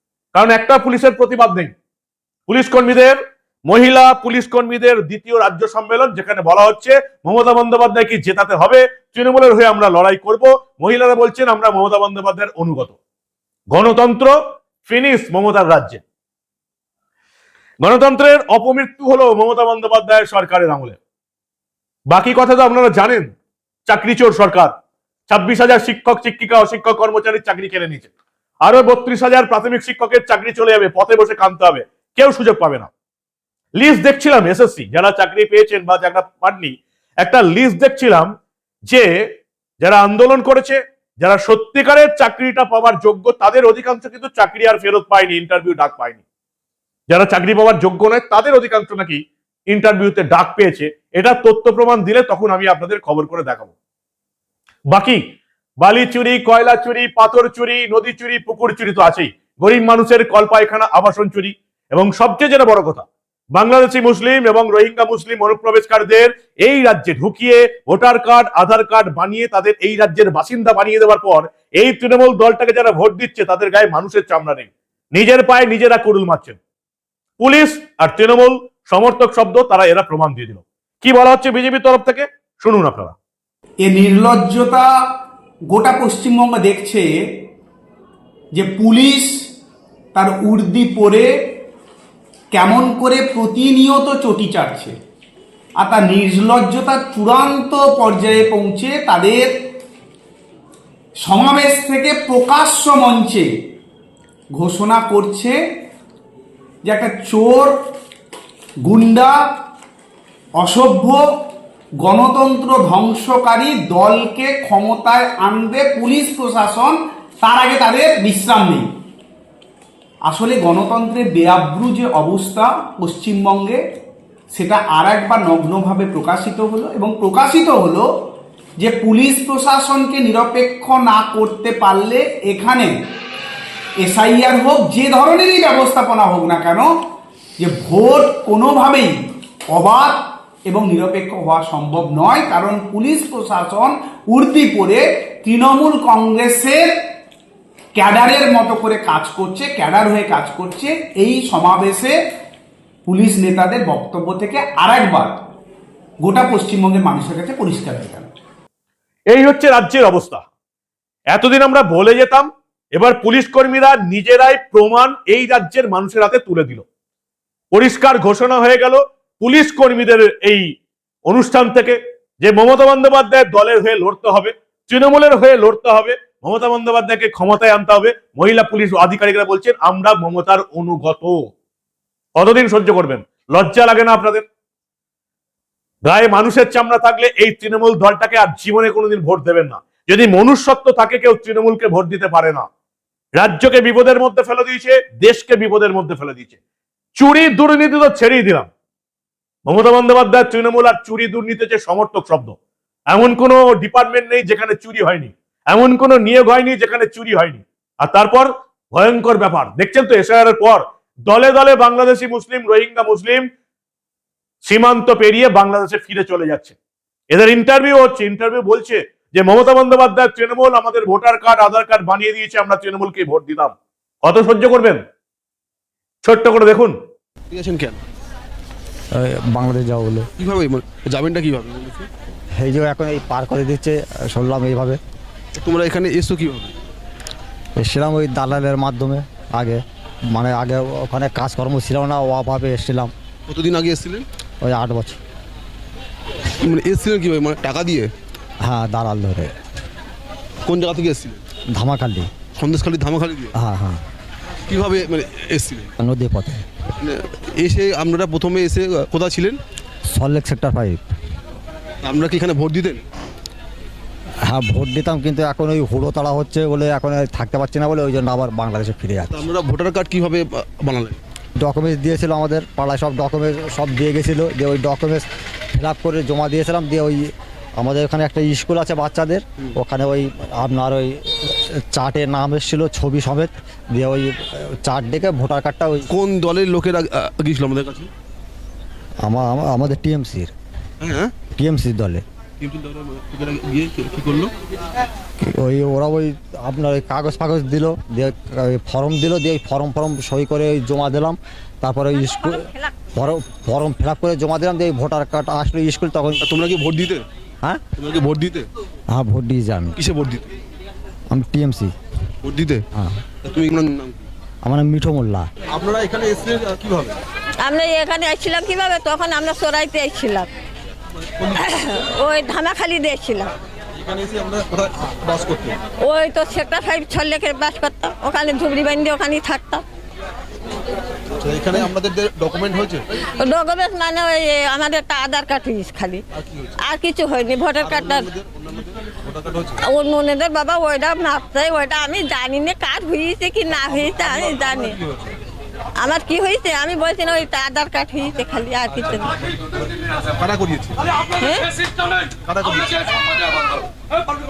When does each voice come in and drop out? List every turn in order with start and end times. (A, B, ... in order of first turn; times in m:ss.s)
0:00.3-0:01.7 A
0:02.5-0:13.0 A
0:13.7-0:16.0 A
0:17.8-0:21.0 A
0:22.1-0:23.3 A
0:23.9-0:24.7 A
0:25.3-0:28.1 A
0:28.6-0:32.9 A
0:33.8-0:38.3 A
0:39.8-0:46.2 A
0:47.1-0:53.7 A
0:54.9-0:55.2 A
0:55.8-1:16.6 A
1:17.4-1:23.2 A
1:23.8-1:24.9 B
1:25.7-1:27.1 B
1:28.5-1:29.3 B
1:30.1-1:31.3 B
1:32.5-1:35.0 B
1:35.8-1:39.6 B
1:41.2-1:43.5 B
1:44.5-1:45.6 B
1:46.8-1:47.8 B
1:48.8-1:49.4 B
1:50.6-1:51.3 B
1:52.0-1:58.9 B
2:00.2-2:03.8 B
2:04.5-2:08.1 B
2:08.8-2:13.0 B
2:14.0-2:16.9 B
2:17.6-2:27.0 B
2:27.9-2:32.2 B
2:33.1-2:35.5 B
2:36.2-2:38.3 B
2:39.3-2:40.4 A
2:41.3-2:46.8 A
2:47.7-2:50.7 A
2:51.3-3:01.5 A
3:02.4-3:04.5 A
3:06.1-3:12.6 A
3:13.4-3:16.6 A
3:17.2-3:18.7 A
3:19.7-3:22.6 A
3:23.1-3:33.5 A
3:34.7-3:36.8 A
3:37.3-3:45.0 A
3:46.2-3:47.0 A
3:47.5-3:48.0 C
3:49.2-3:50.3 D
3:50.4-3:52.1 C
3:52.6-3:55.0 D
3:55.5-3:56.8 C
3:57.8-4:03.1 D
4:03.5-4:04.3 C
4:04.6-4:05.2 D
4:06.6-4:08.1 C
4:08.6-4:09.5 D
4:10.6-4:11.4 C
4:11.7-4:12.3 D
4:12.6-4:13.5 C
4:13.6-4:14.0 D
4:14.6-4:15.9 C
4:16.0-4:16.6 D
4:17.0-4:19.6 C
4:20.1-4:21.0 D
4:22.0-4:23.0 C
4:24.5-4:29.5 D
4:29.3-4:31.2 C
4:31.6-4:46.1 D
4:46.1-4:48.1 C
4:49.2-4:50.5 D
4:51.0-4:51.3 C
4:51.6-4:52.2 D
4:52.6-4:54.5 C
4:55.4-5:06.4 D
5:02.3-5:02.9 E
5:06.4-5:07.3 C
5:07.9-5:08.7 C
5:09.1-5:10.0 D
5:10.0-5:10.5 C
5:11.3-5:11.9 D
5:12.4-5:12.9 C
5:12.9-5:13.2 D
5:13.4-5:14.3 C
5:14.6-5:15.5 D
5:15.7-5:17.2 C
5:17.6-5:20.5 E
5:21.6-5:23.5 E
5:24.0-5:25.8 C
5:26.0-5:29.8 E
5:31.4-5:33.1 C
5:33.4-5:36.2 E
5:36.4-5:36.8 C
5:36.8-5:38.3 E
5:37.8-5:39.8 C
5:39.8-5:45.0 E
5:44.3-5:45.3 C
5:46.0-5:49.4 E
5:50.1-5:51.3 C
5:51.4-5:51.7 E
5:52.4-5:53.2 C